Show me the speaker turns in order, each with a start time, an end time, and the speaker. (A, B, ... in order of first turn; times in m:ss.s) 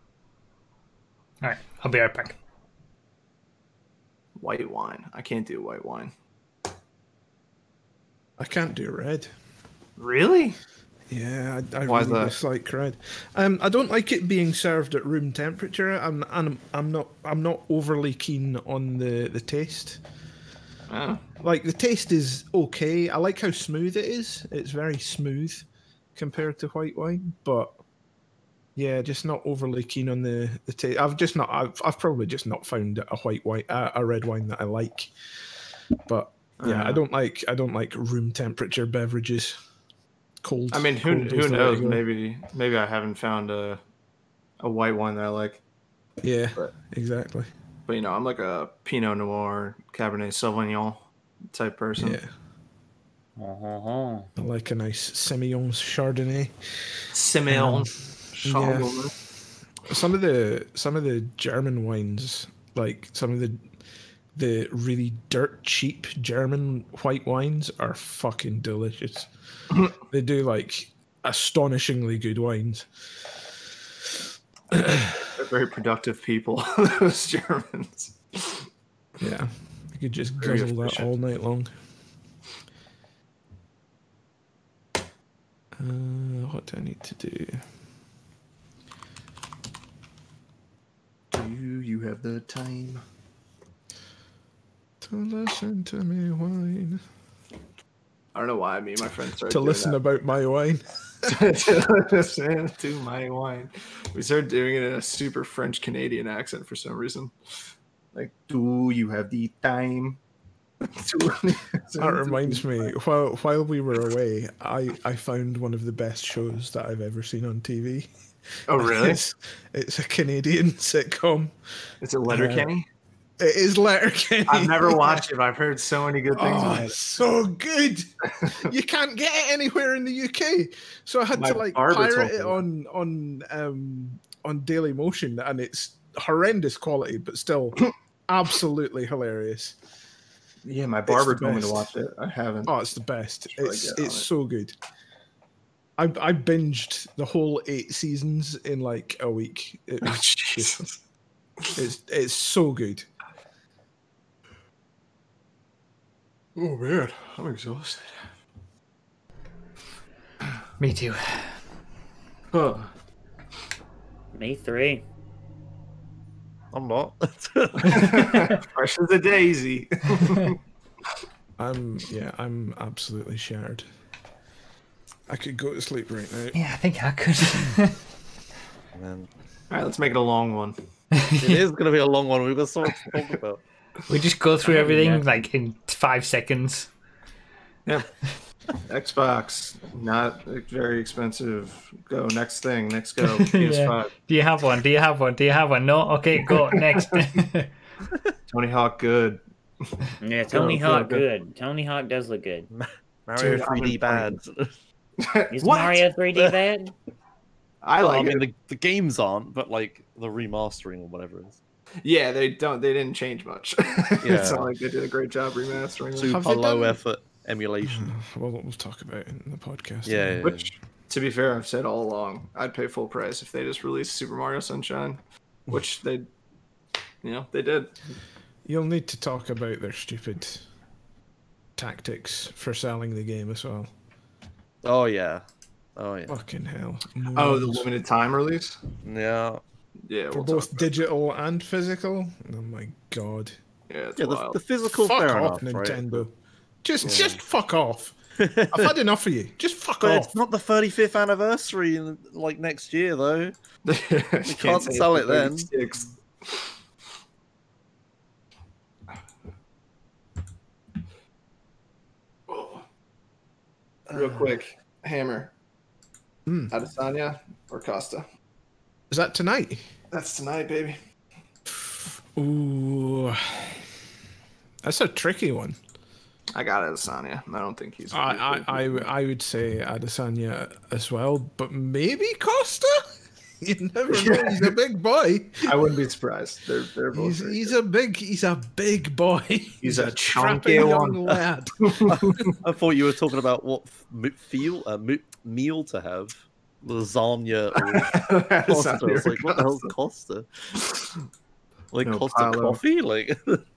0:01.4-0:02.4 A
0:04.4-0:06.1 B
0:08.4-0:09.3 C
0:10.0-0:10.6 B
0:11.1-0:20.0 C
0:11.9-0:12.4 B
0:20.9-0:21.2 B
0:21.4-0:27.8 C
0:28.8-0:35.1 C
0:36.1-0:39.6 C
0:36.6-0:37.0 B
0:40.4-0:42.0 C
0:40.7-0:43.8 B
0:44.6-0:45.6 B
0:46.2-0:47.5 C
0:47.9-0:52.2 B
0:52.0-0:52.3 C
0:53.4-0:54.3 D
0:54.4-0:57.9 C
0:57.1-0:59.1 B
0:58.4-0:59.1 C
0:59.8-1:03.7 C
1:04.3-1:09.3 C
1:10.0-1:13.4 C
1:14.7-1:15.2 C
1:15.3-1:18.7 B
1:19.2-1:21.7 C
1:20.4-1:21.1 B
1:25.8-1:27.7 C
1:31.3-1:33.0 B
1:35.0-1:37.0 C
1:38.3-1:40.0 B
1:39.5-1:41.3 C
1:41.2-1:47.3 B
1:48.1-1:50.2 B
1:50.8-1:52.9 B
1:52.0-1:58.1 C
1:58.7-1:59.2 B
1:58.7-2:02.7 C
2:02.0-2:02.9 B
2:03.4-2:05.2 C
2:04.5-2:06.9 B
2:06.3-2:19.8 C
2:11.4-2:12.6 B
2:20.6-2:22.7 B
2:21.1-2:21.9 C
2:22.7-2:24.8 C
2:23.6-2:24.3 B
2:26.0-2:30.8 C
2:30.0-2:30.9 B
2:31.8-2:33.1 C
2:36.6-2:38.4 B
2:40.8-2:41.6 A
2:42.5-2:42.9 B
2:44.3-2:45.0 D
2:46.7-2:48.4 E
2:47.8-2:50.6 B
2:51.6-2:53.9 C
2:55.3-2:56.6 C
2:56.5-2:58.0 A
2:58.9-2:59.3 E
2:59.7-3:00.8 B
3:01.2-3:01.6 A
3:01.4-3:03.6 E
3:04.1-3:06.9 A
3:04.6-3:05.2 E
3:08.8-3:14.1 B
3:13.4-3:17.7 A
3:18.5-3:21.2 B
3:20.2-3:22.7 D
3:22.7-3:24.7 E
3:23.4-3:24.4 B
3:25.2-3:26.1 B
3:25.5-3:26.9 D
3:27.8-3:28.4 B
3:28.0-3:31.6 E
3:32.0-3:36.6 B
3:34.2-3:34.7 E
3:36.2-3:38.2 E
3:36.2-3:37.0 C
3:37.8-3:40.5 C
3:40.0-3:40.7 E
3:40.4-3:46.3 B
3:47.2-3:48.0 B
3:48.6-3:50.7 C
3:51.8-3:53.9 C
3:54.8-3:55.4 E
3:56.0-3:56.4 E
3:56.3-3:57.9 C
3:57.4-3:58.8 B
3:59.0-3:59.6 E
4:00.1-4:01.1 B
4:00.3-4:03.6 C
4:03.9-4:04.6 B
4:04.2-4:06.0 E
4:04.9-4:08.2 C
4:07.0-4:07.4 E
4:08.4-4:08.9 E
4:08.7-4:10.3 C
4:10.0-4:13.5 E
4:13.8-4:16.6 B
4:14.5-4:15.7 E
4:22.5-4:22.9 B
4:24.1-4:25.5 B
4:26.5-4:26.7 C
4:26.7-4:28.3 B
4:29.1-4:29.8 C
4:30.1-4:31.0 B
4:32.4-4:33.9 C
4:34.8-4:35.8 C
4:36.6-4:39.1 B
4:38.1-4:45.8 C
4:44.1-4:44.7 B
4:45.6-4:47.8 B
4:47.1-4:52.5 C
4:49.8-4:51.4 B
4:51.9-4:52.5 B
4:52.1-5:00.8 E
4:57.8-4:59.9 B
5:00.8-5:01.1 B
5:01.9-5:03.6 E
5:02.0-5:02.8 B